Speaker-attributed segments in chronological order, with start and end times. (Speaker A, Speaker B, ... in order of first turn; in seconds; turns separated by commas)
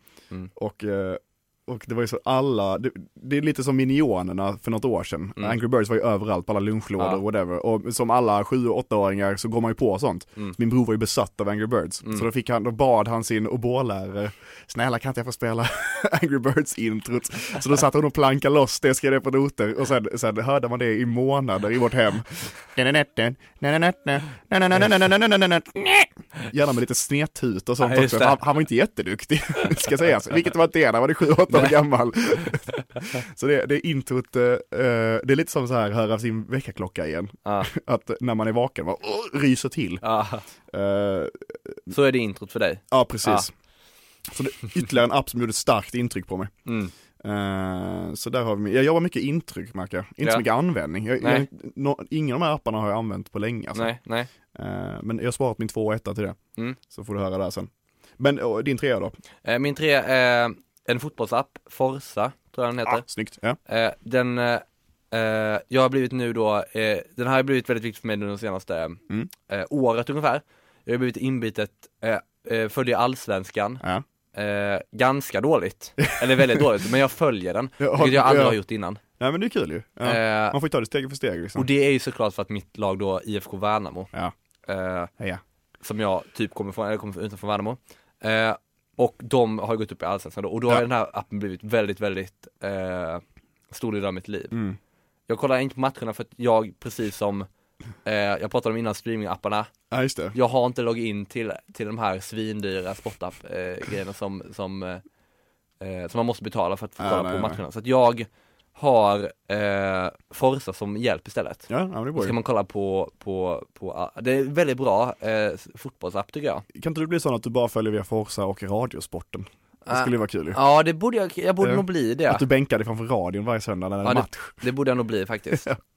Speaker A: 0.6-40.0, Speaker B: 27.8-28.4, Speaker B: 37.5-37.7, Speaker B: 40.0-40.5, Speaker A: 40.7-41.9, Speaker B: 41.9-43.5, Speaker A: 42.9-43.5, Speaker A: 44.3-46.5, Speaker B: 46.7-46.9, Speaker A: 47.2-53.9, Speaker B: 51.2-51.5, Speaker B: 53.8-54.3, Speaker A: 54.5-59.1, Speaker B: 59.5-63.0, Speaker A: 62.9-63.6, Speaker B: 63.7-73.8, Speaker B: 74.3-79.0, Speaker A: 77.8-78.6, Speaker A: 79.2-81.7, Speaker B: 80.0-80.6, Speaker B: 81.5-84.1, Speaker B: 84.7-85.1, Speaker B: 85.8-94.6, Speaker A: 94.5-94.8, Speaker B: 95.3-97.5, Speaker B: 98.0-99.7, Speaker A: 99.9-100.4, Speaker B: 100.3-105.0, Speaker B: 105.8-116.7, Speaker A: 107.0-107.6, Speaker A: 111.7-112.4, Speaker A: 116.7-120.6, Speaker B: 119.8-122.4, Speaker A: 121.6-124.6, Speaker B: 124.0-125.7